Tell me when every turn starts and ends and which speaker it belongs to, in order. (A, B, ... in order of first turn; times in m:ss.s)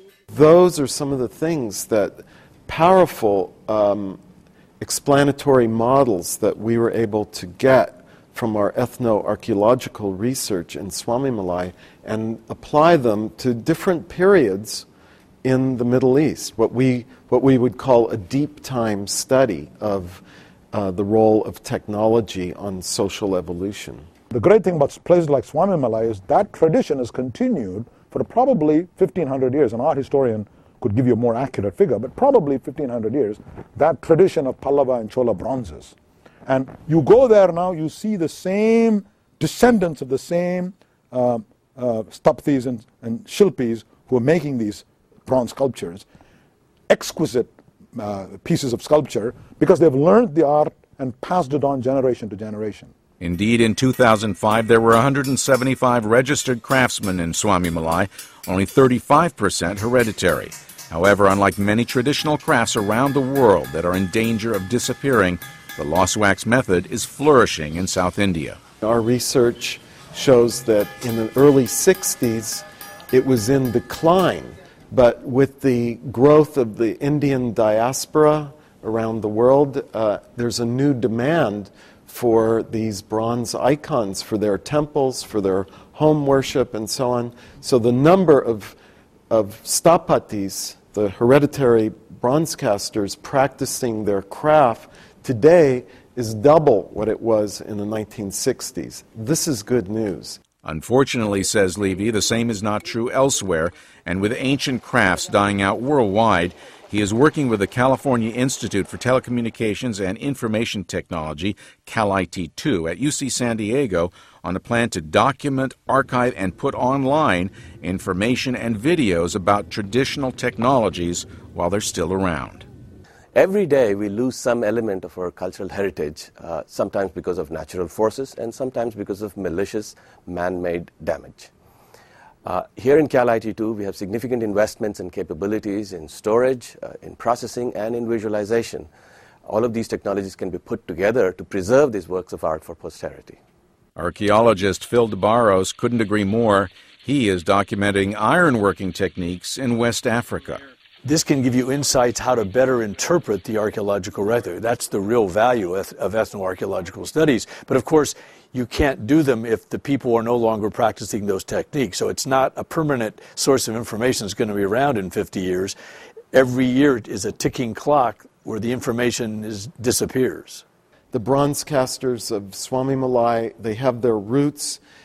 0:00.3-0:04.2 A
0:04.8-0:14.9 A
0:15.4-0:20.2 A
0:20.7-0:24.0 A
0:24.3-0:35.9 B
0:36.4-0:46.0 B
0:46.9-0:52.9 B
0:53.2-1:08.6 C
1:08.8-1:28.8 A
1:29.3-1:40.4 A
1:40.6-2:02.6 C
2:03.3-2:11.5 D
2:12.4-2:18.9 D
2:19.4-2:23.4 D
2:24.0-2:30.6 C
2:31.0-2:45.7 E
2:46.3-2:50.6 E
2:51.1-2:54.8 A